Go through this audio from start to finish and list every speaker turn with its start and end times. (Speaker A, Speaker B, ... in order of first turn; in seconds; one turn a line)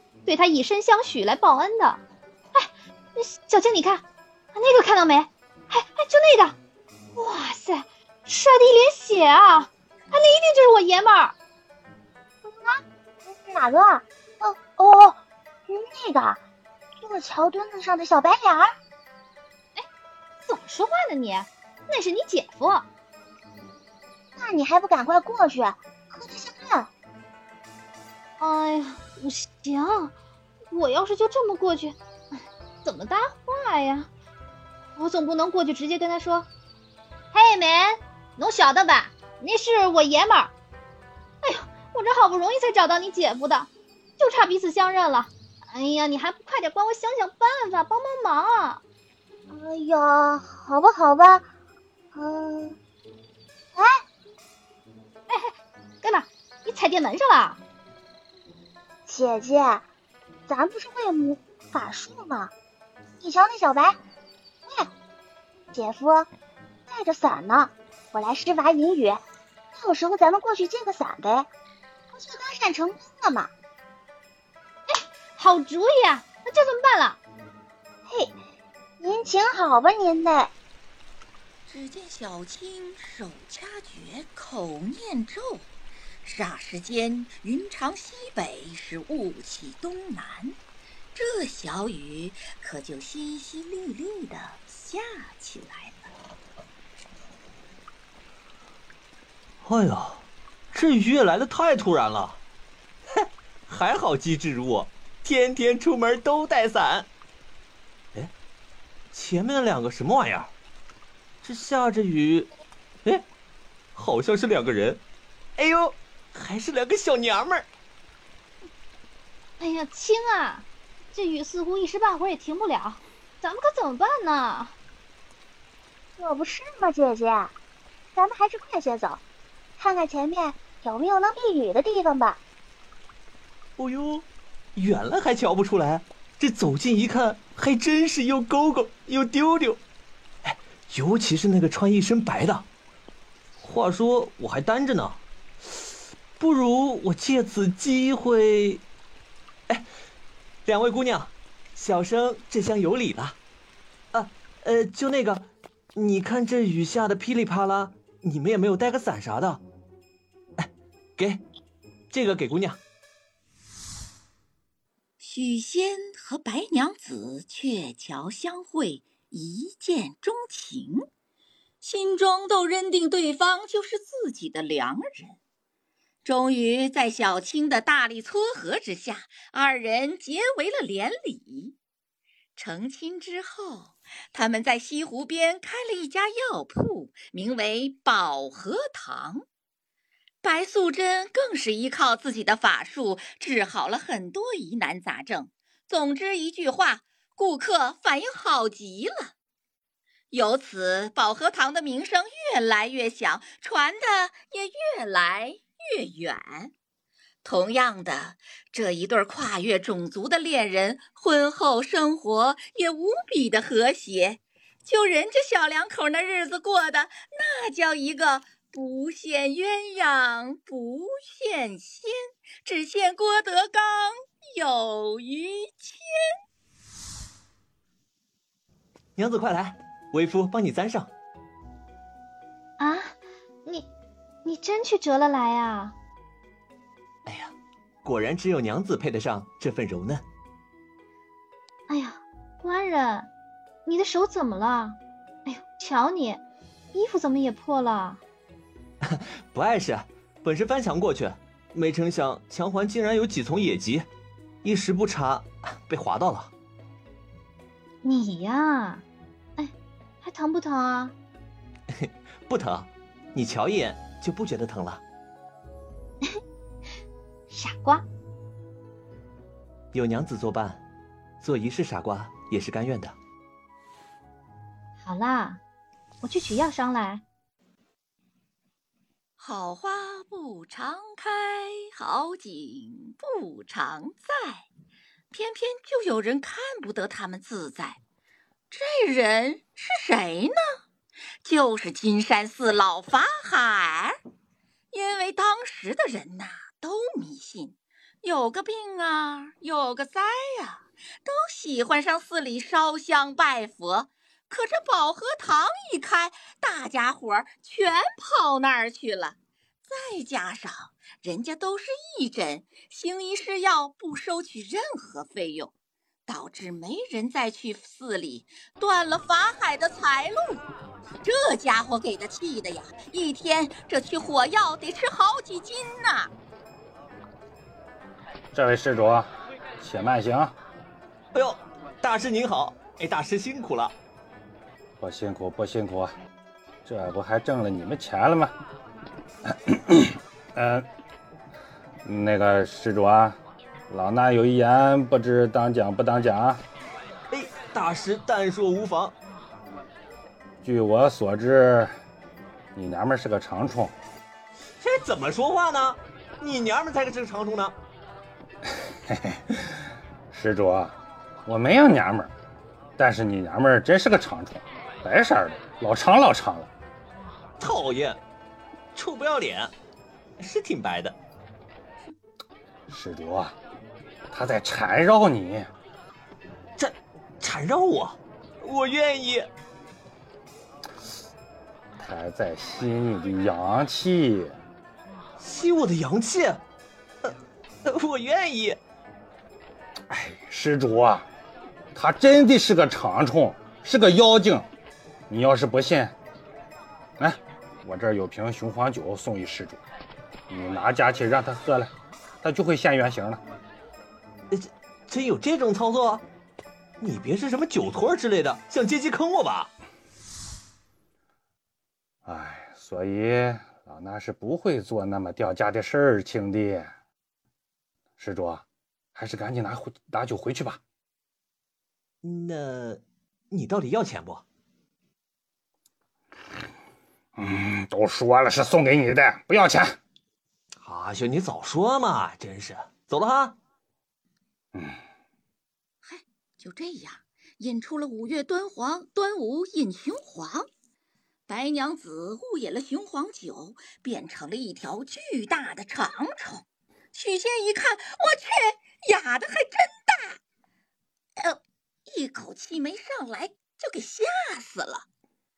Speaker A: 0.2-2.0
Speaker A: 2.5-6.5
Speaker A: 7.2-11.3
Speaker B: 12.4-16.4
Speaker B: 17.0-18.8
Speaker A: 20.4-22.9
Speaker B: 24.4-26.9
Speaker A: 28.4-30.1
Speaker A: 30.7-32.0
Speaker A: 32.8-34.1
Speaker A: 35.0-36.5
Speaker A: 37.3-40.5
Speaker A: 41.4-48.8
Speaker B: 49.5-51.5
Speaker B: 52.1-52.8
Speaker A: 56.0-57.6
Speaker B: 59.0-59.9
Speaker B: 60.5-62.5
Speaker B: 63.2-64.0
Speaker B: 65.7-66.3
Speaker B: 66.9-69.2
Speaker B: 69.7-71.5
Speaker B: 72.1-73.5
Speaker A: 74.9-77.2
Speaker B: 78.1-78.3
Speaker B: 79.0-80.5
Speaker C: 81.7-85.7
Speaker C: 86.2-90.5
Speaker C: 91.1-96.0
Speaker D: 99.6-102.4
Speaker D: 103.2-107.1
Speaker D: 109.1-110.5
Speaker D: 111.4-112.5
Speaker D: 113.9-115.0
Speaker D: 115.6-117.7
Speaker A: 119.6-124.8
Speaker B: 126.2-127.5
Speaker B: 128.1-129.2
Speaker B: 129.8-132.4
Speaker D: 133.8-139.8
Speaker D: 140.4-142.7
Speaker D: 143.6-145.2
Speaker D: 146.4-148.8
Speaker D: 150.7-153.4
Speaker D: 154.1-159.6
Speaker D: 160.6-161.4
Speaker D: 162.1-162.8
Speaker C: 165.2-171.0
Speaker C: 171.8-175.4
Speaker C: 176.2-181.7
Speaker C: 182.6-189.4
Speaker C: 190.4-199.3
Speaker C: 200.3-206.7
Speaker C: 207.4-226.0
Speaker D: 229.2-231.1
Speaker A: 232.8-233.9
Speaker A: 234.4-235.9
Speaker D: 237.2-240.2
Speaker A: 241.9-243.3
Speaker A: 243.8-246.4
Speaker A: 246.9-248.2
Speaker D: 249.1-254.1
Speaker D: 254.6-256.5
Speaker A: 258.0-259.0
Speaker A: 259.6-261.1
Speaker D: 262.0-265.0
Speaker A: 267.5-268.0
Speaker D: 269.9-270.8
Speaker D: 271.4-273.1
Speaker A: 275.0-275.6
Speaker A: 276.2-277.2
Speaker C: 279.4-284.6
Speaker C: 285.3-288.0
Speaker C: 288.7-290.6
Speaker C: 291.4-294.2
Speaker C: 294.9-315.7
Speaker C: 316.3-320.6
Speaker C: 321.2-326.3
Speaker E: 328.5-330.5
Speaker D: 331.3-333.9
Speaker E: 335.0-336.1
Speaker E: 336.8-338.5
Speaker E: 339.7-340.9
Speaker E: 342.0-343.4
Speaker E: 343.9-346.6
Speaker D: 347.3-349.1
Speaker E: 350.6-351.9
Speaker E: 352.7-353.9
Speaker D: 354.8-357.7
Speaker E: 359.1-359.6
Speaker E: 360.3-362.3
Speaker E: 363.0-366.7
Speaker D: 367.6-368.2
Speaker D: 368.9-369.7
Speaker D: 370.4-371.2
Speaker E: 372.9-373.6
Speaker E: 374.3-375.7
Speaker D: 376.8-379.5
Speaker E: 382.0-384.5
Speaker D: 385.4-386.6
Speaker D: 387.8-388.8
Speaker E: 390.1-391.3
Speaker E: 391.9-394.7
Speaker E: 395.3-396.1
Speaker E: 397.2-399.8
Speaker E: 400.5-403.4
Speaker D: 404.5-406.2
Speaker D: 407.0-409.7
Speaker E: 412.2-416.9
Speaker E: 418.2-418.6
Speaker E: 419.1-420.8
Speaker D: 422.2-424.4
Speaker E: 427.4-429.9
Speaker D: 430.8-433.6
Speaker E: 434.7-435.0
Speaker C: 436.0-440.7
Speaker C: 441.5-450.4
Speaker C: 451.4-455.1